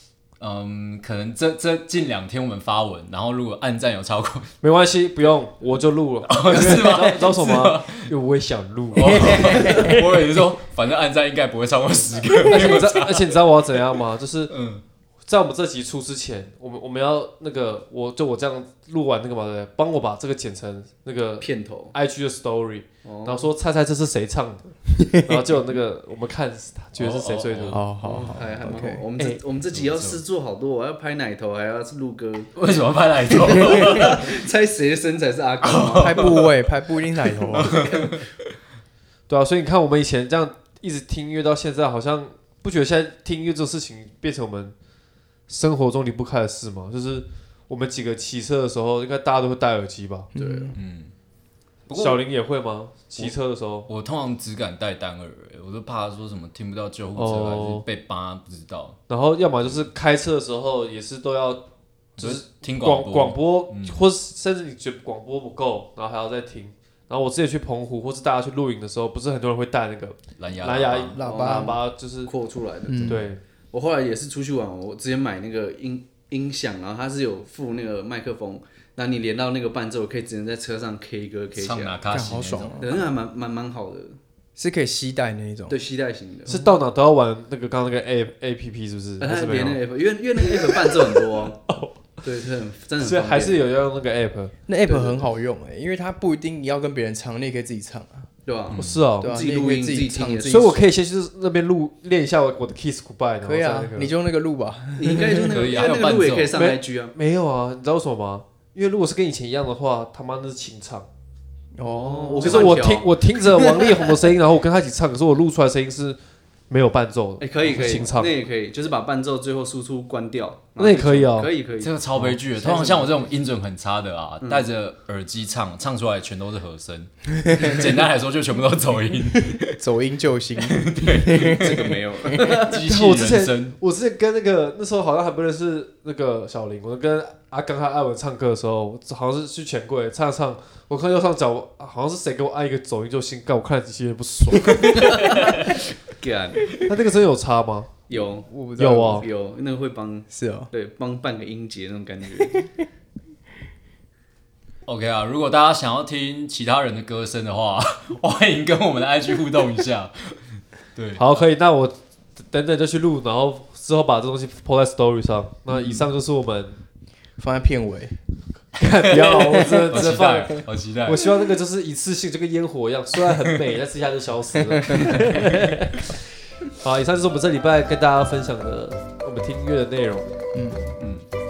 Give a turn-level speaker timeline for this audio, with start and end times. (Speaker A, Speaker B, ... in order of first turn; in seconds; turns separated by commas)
Speaker A: 0.4-4.5, Speaker B: 4.6-9.7, Speaker A: 6.3-8.1, Speaker C: 6.5-7.3, Speaker A: 8.9-13.2, Speaker C: 9.1-10.1, Speaker B: 12.5-14.5, Speaker A: 14.5-14.8, Speaker B: 15.3-27.9, Speaker D: 21.4-21.9, Speaker D: 23.0-23.5, Speaker C: 25.0-25.4, Speaker A: 27.0-27.8, Speaker C: 27.7-29.1, Speaker D: 28.0-32.5, Speaker A: 29.7-30.2, Speaker A: 32.6-34.3, Speaker D: 33.3-36.4, Speaker A: 35.6-36.5, Speaker C: 35.9-37.9, Speaker A: 37.2-38.2, Speaker D: 37.7-38.1, Speaker B: 39.3-44.8, Speaker B: 45.5-50.3, Speaker C: 50.4-50.8, Speaker D: 50.4-50.8, Speaker A: 50.7-51.1, Speaker A: 51.9-52.2, Speaker B: 51.9-53.9, Speaker A: 53.9-59.0, Speaker B: 57.1-57.9, Speaker B: 59.1-61.6, Speaker A: 62.2-64.0, Speaker B: 62.2-72.3, Speaker A: 70.4-71.2, Speaker C: 71.1-71.8, Speaker D: 71.2-82.0, Speaker C: 72.9-73.2, Speaker B: 73.0-73.4, Speaker A: 81.6-82.8, Speaker C: 82.1-83.0, Speaker D: 82.8-84.2, Speaker C: 84.6-85.8, Speaker D: 85.7-86.6, Speaker B: 86.5-89.8, Speaker D: 89.2-91.6, Speaker B: 90.4-91.9, Speaker D: 92.2-93.6, Speaker B: 93.0-95.1, Speaker C: 94.7-98.3, Speaker D: 98.5-100.8, Speaker A: 98.7-99.1, Speaker B: 98.8-99.3, Speaker C: 99.2-100.8, Speaker B: 100.5-104.1, Speaker C: 103.4-105.7, Speaker D: 105.0-107.2, Speaker A: 105.5-106.5, Speaker B: 106.5-111.1, Speaker C: 111.8-112.9, Speaker D: 111.8-114.0, Speaker B: 112.4-116.2, Speaker B: 116.7-118.3, Speaker D: 117.4-123.1, Speaker B: 120.8-121.5, Speaker A: 121.8-129.8, Speaker D: 124.4-124.7, Speaker C: 129.5-132.5, Speaker A: 130.6-133.8, Speaker D: 131.4-132.9, Speaker B: 132.9-145.3, Speaker D: 144.9-146.8, Speaker B: 146.8-147.9, Speaker D: 148.1-148.5, Speaker C: 148.1-149.3, Speaker B: 148.8-149.3, Speaker D: 149.2-152.7, Speaker C: 150.3-150.7, Speaker A: 154.9-161.3, Speaker B: 161.2-166.8, Speaker C: 165.7-166.0, Speaker C: 167.4-168.2, Speaker B: 168.8-175.9, Speaker A: 169.9-171.3, Speaker C: 174.9-175.2, Speaker A: 175.0-175.3, Speaker B: 176.7-180.3, Speaker C: 180.5-180.9, Speaker A: 181.0-181.3